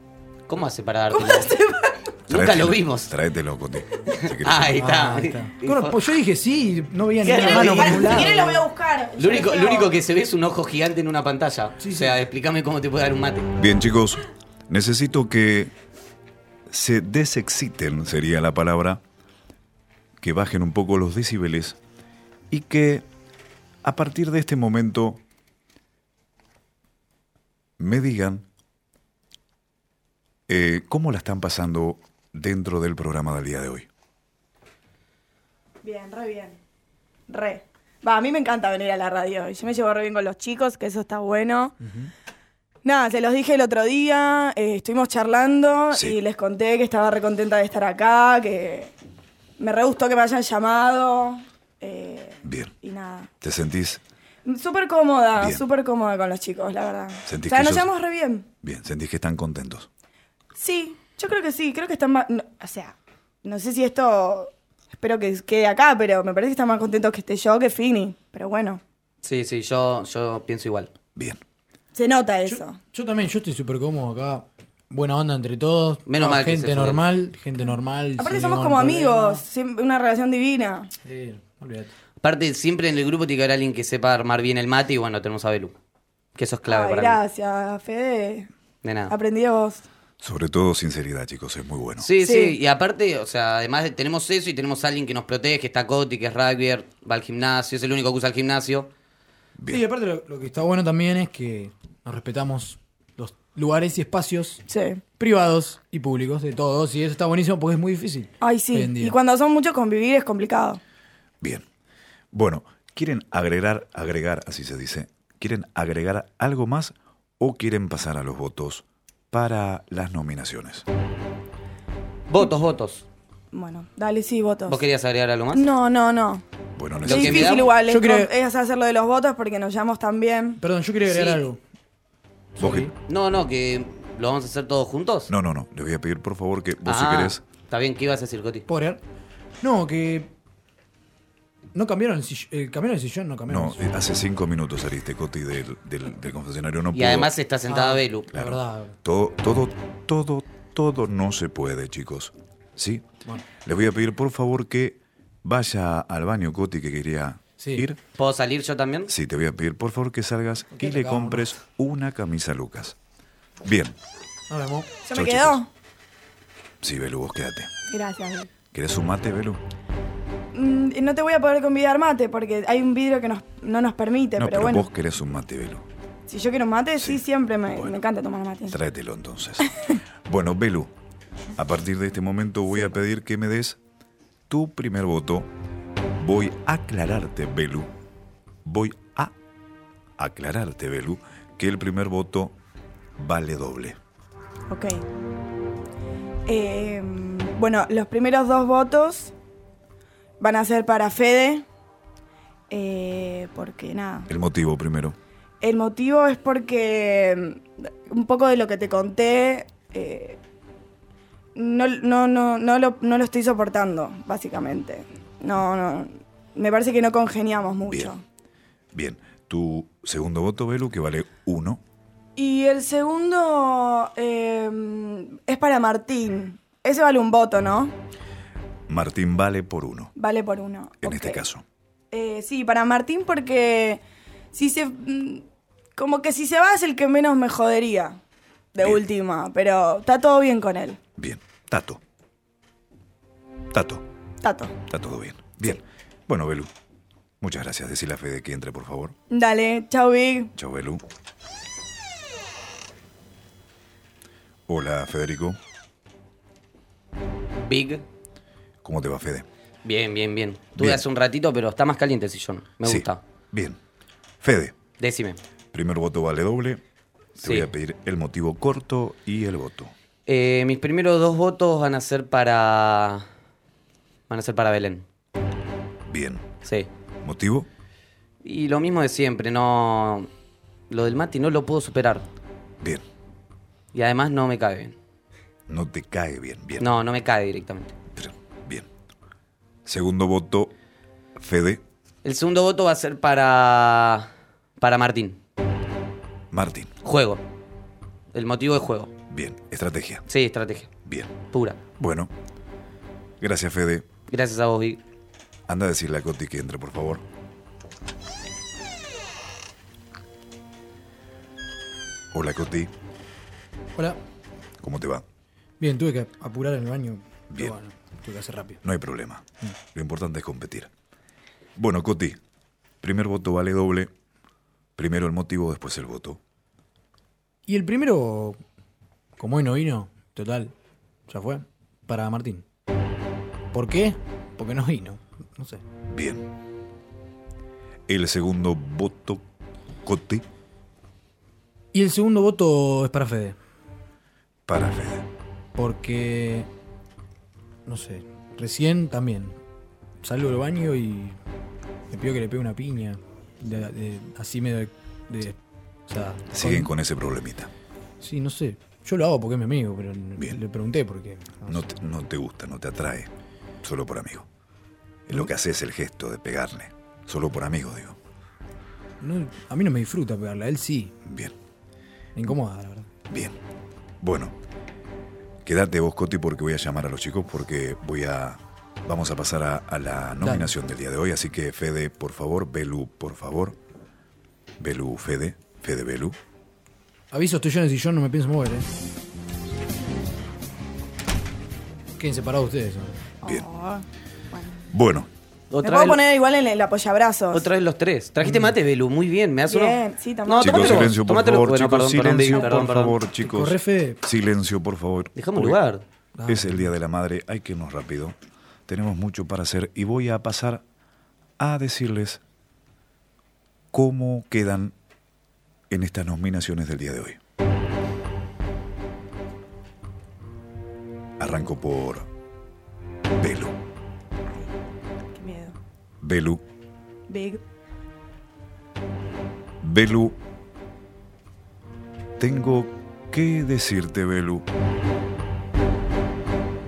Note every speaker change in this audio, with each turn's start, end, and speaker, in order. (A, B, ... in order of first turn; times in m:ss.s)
0:00.5-0:01.5 A
0:01.1-0:02.1 B
0:02.3-0:03.1 A
0:02.3-0:04.9 C
0:04.1-0:06.0 A
0:04.8-0:08.4 D
0:07.2-0:08.6 A
0:07.3-0:10.0 B
0:09.2-0:13.5 A
0:11.8-0:12.1 D
0:13.6-0:15.7 C
0:16.7-0:19.0 C
0:20.2-0:21.8 C
0:22.5-0:23.1 C
0:23.8-0:25.2 C
0:27.8-0:28.5 C
0:30.5-0:33.9 C
0:35.8-0:36.6 B
0:37.3-0:41.8 B
0:41.8-0:42.1 D
0:42.8-0:48.9 B
0:45.9-0:46.2 C
0:49.6-0:53.3 B
0:52.4-0:52.7 C
0:53.4-0:54.0 C
0:54.4-0:58.4 B
0:55.4-0:55.6 C
0:57.2-0:57.9 C
0:58.6-0:59.9 C
1:00.6-1:08.8 B
1:09.2-1:10.9 A
1:11.1-1:11.4 C
1:11.9-1:12.8 B
1:12.4-1:19.4 D
1:16.1-1:17.0 A
1:18.2-1:20.9 B
1:21.0-1:21.9 D
1:22.2-1:25.7 A
1:26.4-1:27.2 A
1:26.7-1:28.5 B
1:28.8-1:29.1 A
1:29.1-1:29.8 B
1:30.2-1:32.1 C
1:32.0-1:38.9 A
1:32.2-1:32.6 B
1:39.6-1:39.8 C
1:39.7-1:44.6 D
1:44.7-1:45.0 B
1:45.2-1:49.1 D
1:48.4-1:50.8 B
1:52.3-2:00.8 C
2:02.3-2:03.0 A
2:03.5-2:04.8 B
2:04.7-2:05.7 A
2:05.5-2:06.4 B
2:06.8-2:07.6 C
2:07.0-2:10.6 B
2:07.0-2:07.7 A
2:07.9-2:08.3 D
2:10.6-2:11.6 D
2:11.1-2:11.4 A
2:12.6-2:12.9 D
2:12.6-2:12.9 C
2:13.1-2:15.3 A
2:15.3-2:17.4 C
2:16.8-2:18.6 A
2:18.7-2:19.0 D
2:19.6-2:20.3 D
2:21.7-2:23.8 D
2:23.5-2:27.3 C
2:26.9-2:28.3 A
2:27.7-2:29.0 D
2:28.3-2:33.1 C
2:33.6-2:38.0 C
2:37.6-2:37.8 D
2:38.2-2:39.1 A
2:39.1-2:43.0 C
2:40.7-2:41.5 D
2:43.6-2:44.0 C
2:44.5-2:44.9 D
2:45.0-2:45.7 B
2:45.1-2:45.6 C
2:46.8-2:47.7 C
2:47.9-2:48.5 B
2:48.7-2:49.6 C
2:50.5-2:54.9 B
2:54.4-2:55.8 C
2:56.3-2:58.8 B
2:58.7-2:59.7 C
3:00.2-3:00.9 C
3:01.6-3:03.8 C
3:04.5-3:05.5 C
3:06.2-3:07.9 C
3:08.6-3:09.3 C
3:10.2-3:12.6 C
3:13.2-3:14.0 C
3:14.7-3:15.0 B
3:16.5-3:19.3 B
3:20.4-3:21.6 B
3:22.7-3:24.3 B
3:24.3-3:25.2 C
3:25.6-3:30.4 B
3:31.6-3:38.2 B
3:37.8-3:38.1 C
3:38.9-3:41.8 C
3:42.4-3:47.9 B
3:48.9-3:50.1 C
3:50.2-3:51.4 B
3:51.0-3:51.6 C
3:52.1-3:54.0 B
3:54.5-3:55.4 B
3:56.0-3:58.2 B
3:58.7-4:01.0 B
3:58.8-3:59.0 C
4:01.2-4:02.0 C
4:03.7-4:04.0 C
4:04.4-4:04.7 B
4:04.9-4:06.7 C
4:07.4-4:09.2 C
4:09.3-4:10.5 B
4:10.6-4:11.0 C
4:14.7-4:15.6 C
4:17.5-4:18.0 A
4:18.8-4:19.5 C
4:19.8-4:23.2 A
4:20.8-4:21.0 C
4:22.8-4:23.8 C
4:24.4-4:24.8 C
4:25.0-4:25.4 A
4:25.7-4:26.8 C
4:27.4-4:27.7 A
4:27.4-4:29.9 C
4:30.3-4:33.3 A
4:34.3-4:35.0 A
4:36.1-4:36.4 C
4:37.2-4:37.7 C
4:38.4-4:40.3 A
4:40.9-4:42.2 A
4:43.9-4:45.0 A
4:45.7-4:46.9 C
4:46.8-4:47.9 A
4:48.2-4:48.9 C
4:49.8-4:50.7 C
4:51.4-4:51.8 C
4:52.2-4:55.4 A
4:56.5-4:56.9 C
4:57.0-4:57.4 A
4:58.3-4:59.1 A
4:59.3-5:00.2 C
5:00.3-5:00.9 A
5:01.0-5:01.3 C
5:01.5-5:01.8 A
5:02.0-5:02.3 C
5:03.4-5:04.1 C
5:04.3-5:05.0 A
5:05.7-5:07.2 C
5:12.3-5:12.9 C
5:13.9-5:14.2 D
5:14.8-5:15.2 C
5:15.8-5:18.8 D
5:17.5-5:17.7 C
5:18.8-5:20.9 C
5:21.8-5:22.4 C
5:23.0-5:24.1 C
5:25.0-5:26.4 C
5:27.7-5:28.6 D
5:29.4-5:30.7 D
5:31.3-5:32.6 D
5:33.7-5:35.8 D
5:36.1-5:36.5 C
5:38.1-5:39.4 C
5:40.0-5:40.4 C
5:41.9-5:43.6 D
5:44.7-5:45.3 C
5:45.7-5:46.7 D
5:47.8-5:49.6 D
5:50.2-5:51.4 D
5:52.1-5:56.9 D
5:56.5-5:57.7 C
5:58.2-6:01.8 D
6:01.7-6:03.3 C
6:03.8-6:04.5 C
6:05.3-6:08.2 C
6:09.2-6:11.1 D
6:11.2-6:11.5 C
6:12.4-6:13.1 D
6:13.3-6:13.6 C
6:14.2-6:14.5 C
6:15.6-6:23.8 C
6:20.4-6:20.7 D
6:24.8-6:26.4 C
6:27.3-6:28.9 D
6:32.2-6:33.2 D
6:33.4-6:34.8 B
6:34.9-6:35.3 C
6:35.7-6:36.2 A
6:35.8-6:37.6 B
6:37.5-6:43.2 A
6:38.4-6:38.7 D
6:39.7-6:41.1 B
6:40.6-6:45.8 C
6:43.4-6:44.2 D
6:45.4-6:46.0 A
6:46.4-6:46.9 D
6:46.5-6:48.4 C
6:48.9-6:50.8 C
6:51.6-6:52.4 C
6:53.9-6:54.9 C
6:55.9-6:57.4 C
7:01.4-7:02.3 C
7:03.4-7:03.8 C
7:05.3-7:05.8 B
7:06.2-7:06.6 C
7:07.3-7:07.6 B
7:09.8-7:10.4 C
7:12.4-7:14.6 C